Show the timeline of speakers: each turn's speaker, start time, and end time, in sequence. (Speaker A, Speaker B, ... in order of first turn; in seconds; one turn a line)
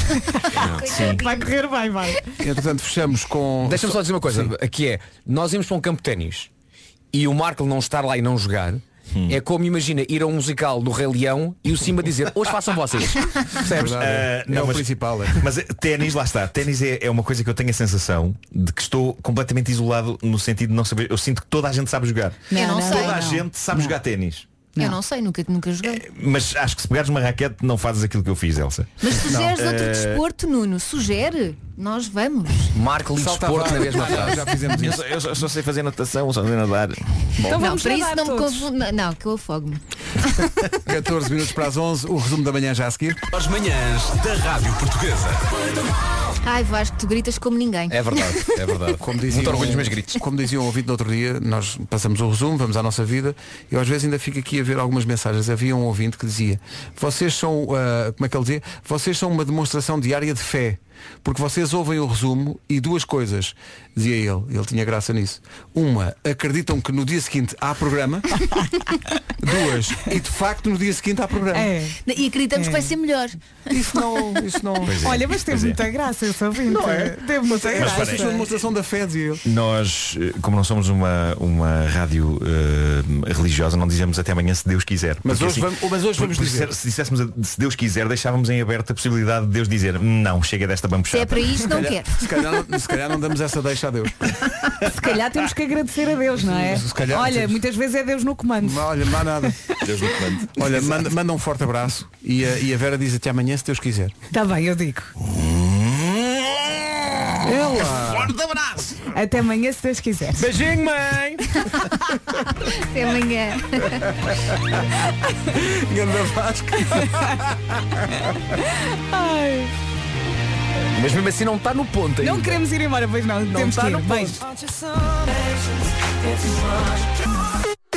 Speaker A: 0.6-1.5
Speaker B: 0.6-0.9
Speaker C: 0.8-1.2
Speaker D: 1.0-2.4
Speaker E: 2.4-4.5
Speaker B: 3.6-6.5
Speaker B: 7.1-14.2
Speaker C: 9.1-9.4
Speaker E: 13.6-15.5
Speaker C: 14.0-24.5
Speaker D: 22.5-23.9
Speaker A: 22.5-23.2
Speaker A: 24.8-26.0
Speaker C: 25.8-30.2
Speaker A: 29.0-32.7
Speaker E: 29.2-29.6
Speaker B: 32.7-34.5
Speaker E: 33.1-35.1
Speaker C: 34.7-37.3
Speaker D: 37.4-38.6
Speaker A: 37.5-39.8
Speaker E: 40.8-43.2
Speaker F: 43.3-45.5
Speaker A: 46.4-48.5
Speaker B: 47.9-50.2
Speaker E: 49.0-68.4
Speaker E: 69.4-71.7
Speaker D: 71.5-72.0
Speaker A: 72.0-73.4
Speaker D: 72.5-72.9
Speaker E: 73.7-75.0
Speaker C: 74.8-75.8
Speaker D: 75.0-78.5
Speaker E: 76.7-79.4
Speaker C: 77.8-78.3
Speaker C: 79.4-91.7
Speaker E: 85.2-86.8
Speaker A: 91.1-92.5
Speaker E: 91.6-94.4
Speaker D: 94.8-99.0
Speaker E: 96.4-97.6
Speaker E: 98.6-99.6
Speaker C: 99.8-101.0
Speaker E: 100.5-104.1
Speaker D: 104.3-105.1
Speaker C: 105.2-107.4
Speaker E: 107.4-108.3
Speaker C: 107.9-109.0
Speaker D: 109.1-110.5
Speaker B: 110.4-111.4
Speaker A: 112.6-114.1
Speaker E: 113.9-114.8
Speaker E: 115.5-118.0
Speaker D: 117.0-117.3
Speaker D: 118.5-119.7
Speaker B: 120.9-122.6
Speaker D: 122.2-124.4
Speaker B: 123.5-124.3